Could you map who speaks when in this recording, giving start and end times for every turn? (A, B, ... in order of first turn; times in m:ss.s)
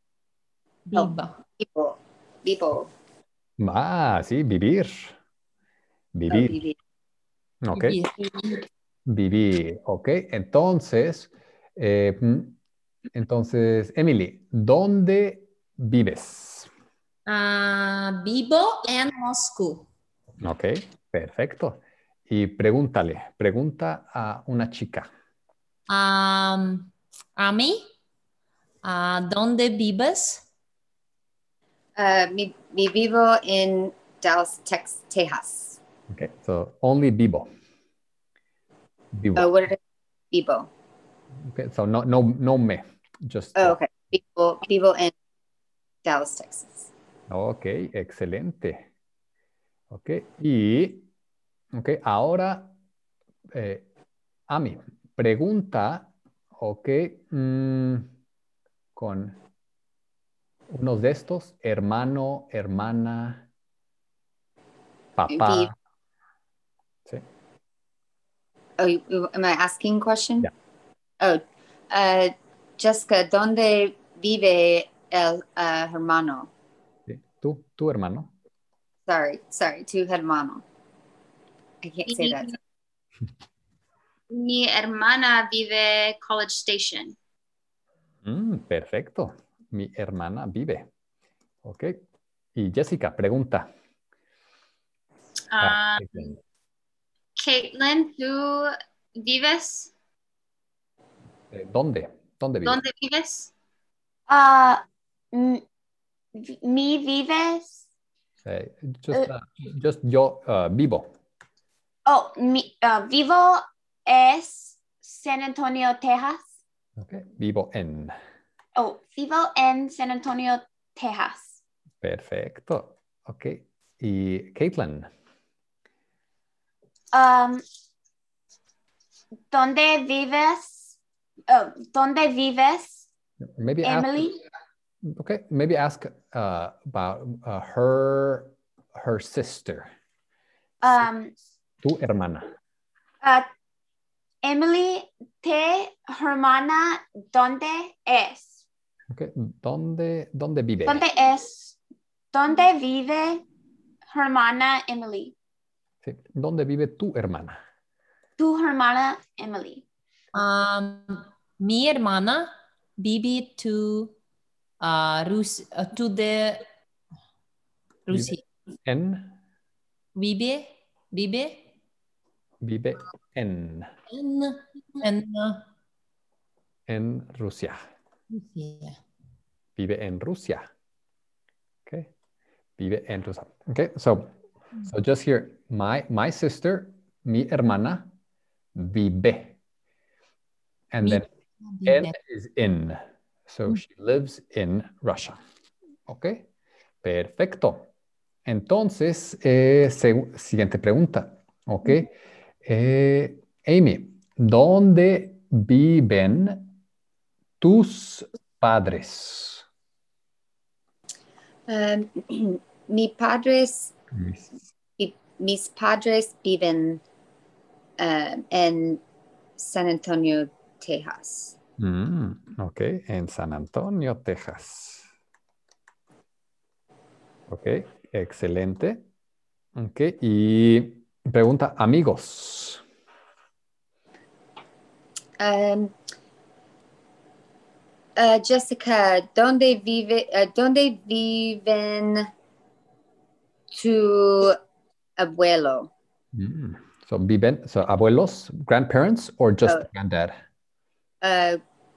0:00.9-0:01.4 A
0:00.9-0:02.9 B
0:03.6-0:05.2 C
0:06.1-0:06.6 C
0:06.3-0:06.8 B
0:07.6-0:08.0 C
0:07.7-0:08.6 A
0:09.1-0:12.6 C
0:13.1-0:16.7 C
0:17.2-0:19.9 A
0:20.4-0:25.1 C
0:25.9-0:27.8 A
0:28.8-0:30.4 A
0:32.0-0:35.8 B
0:36.1-0:37.5 C
0:39.1-0:39.5 C
0:39.4-0:39.8 B
0:40.3-0:40.7 B
0:41.4-0:43.9 C
0:43.6-0:45.1 B
0:46.0-0:46.9 B
0:47.3-0:48.9 C
0:49.9-0:51.1 C
0:51.7-0:52.7 C
0:53.5-0:53.9 C
0:54.5-0:58.1 C
0:59.0-0:59.4 C
1:00.7-1:03.5 C
1:05.2-1:05.7 C
1:05.3-1:05.7 B
1:08.8-1:10.5 B
1:11.2-1:16.5 B
1:17.1-1:18.3 C
1:19.1-1:20.6 B
1:21.8-1:22.6 B
1:22.1-1:22.6 D
1:24.3-1:27.2 D
1:28.2-1:30.9 C
1:31.6-1:32.0 C
1:32.6-1:33.7 C
1:35.5-1:36.3 D
1:35.6-1:36.4 C
1:37.4-1:39.9 D
1:41.5-1:42.8 C
1:42.6-1:43.5 D
1:44.3-1:44.8 E
1:45.3-1:45.6 E
1:46.3-1:47.8 E
1:48.4-1:51.1 C
1:52.0-1:56.5 E
1:57.0-1:58.1 C
1:58.8-2:01.6 E
2:02.0-2:05.1 C
2:07.1-2:07.6 E
2:09.5-2:11.0 E
2:11.5-2:13.1 E
2:13.6-2:14.3 C
2:13.8-2:14.4 E
2:15.0-2:19.9 C
2:20.8-2:21.3 E
2:21.8-2:22.5 C
2:24.4-2:28.6 E
2:29.1-2:31.0 C
2:30.8-2:31.8 E
2:32.3-2:33.4 E
2:34.1-2:35.3 E
2:36.0-2:37.6 C
2:38.4-2:39.8 E
2:40.3-2:44.1 A
2:44.8-2:46.6 A
2:48.1-2:48.4 A
2:48.1-2:49.3 C
2:50.1-2:51.6 A
2:52.6-2:53.9 C
2:54.1-2:55.6 A
2:56.9-2:57.8 C
2:58.3-2:59.0 A
2:59.8-3:00.6 C
3:02.8-3:08.1 C
3:08.7-3:09.6 C
3:10.9-3:11.3 C
3:11.0-3:12.2 A
3:11.8-3:15.4 C
3:16.1-3:16.4 C
3:17.0-3:17.9 C
3:18.4-3:22.1 C
3:22.6-3:26.7 C
3:27.6-3:29.6 C
3:31.7-3:33.9 B
3:34.1-3:34.5 C
3:35.0-3:37.0 B
3:38.0-3:39.0 B
3:39.6-3:41.6 B
3:41.8-3:45.1 C
3:47.5-3:49.0 C
3:49.8-3:52.8 C
3:55.4-3:55.9 B
3:58.2-4:02.3 B
4:03.7-4:04.6 B
4:05.2-4:05.9 B
4:06.3-4:10.4 C
4:11.2-4:11.6 B